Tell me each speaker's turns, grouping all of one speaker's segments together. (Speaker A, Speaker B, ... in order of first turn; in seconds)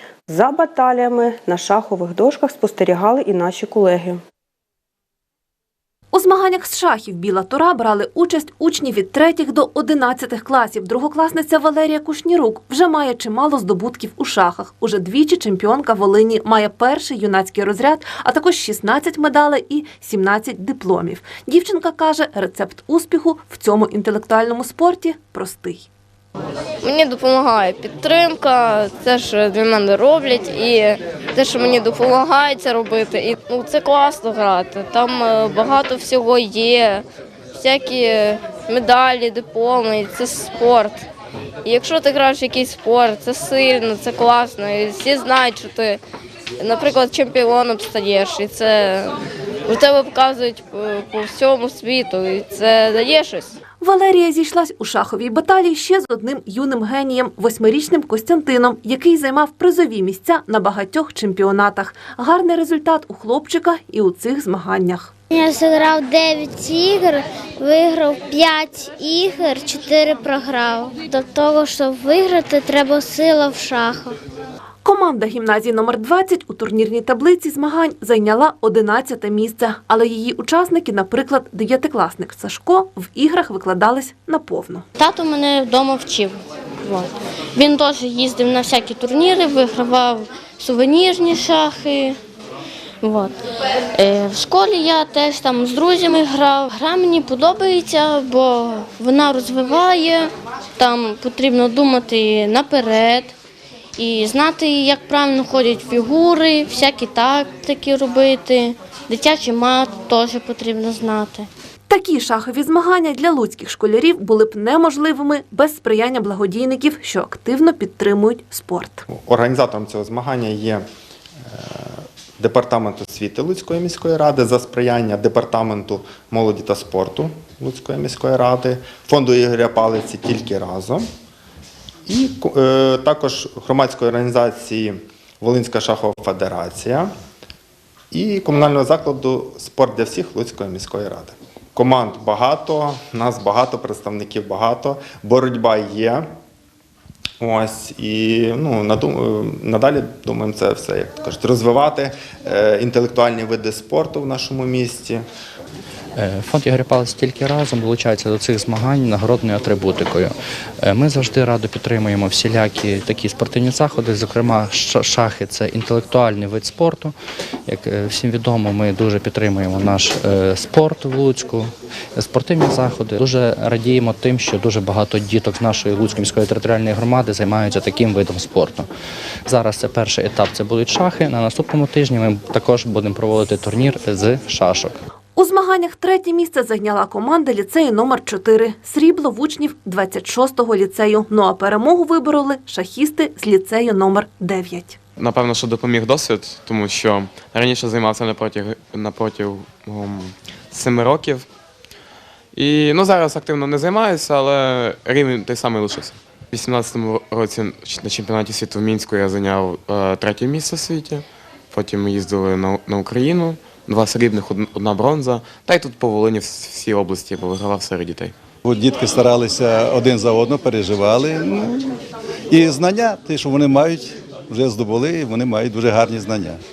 Speaker A: 0.3-4.2
Speaker B: 6.1-25.9, 53.8-65.1, 74.8-84.8, 111.9-119.0, 185.3-195.0
Speaker C: 26.8-37.0, 37.5-41.0, 41.6-46.0, 46.6-49.1, 49.6-53.5
Speaker D: 65.3-74.2
Speaker E: 85.0-92.2, 93.0-93.3, 93.9-103.3, 104.0-111.5
Speaker F: 119.1-120.8, 121.5-131.0, 132.1-137.1, 138.1-146.2, 147.4-155.2
Speaker G: 156.2-160.3, 160.8-167.1, 167.7-178.8, 179.5-184.9
Speaker H: 195.2-201.4, 202.5-218.3
Speaker I: 218.6-222.0, 222.5-226.6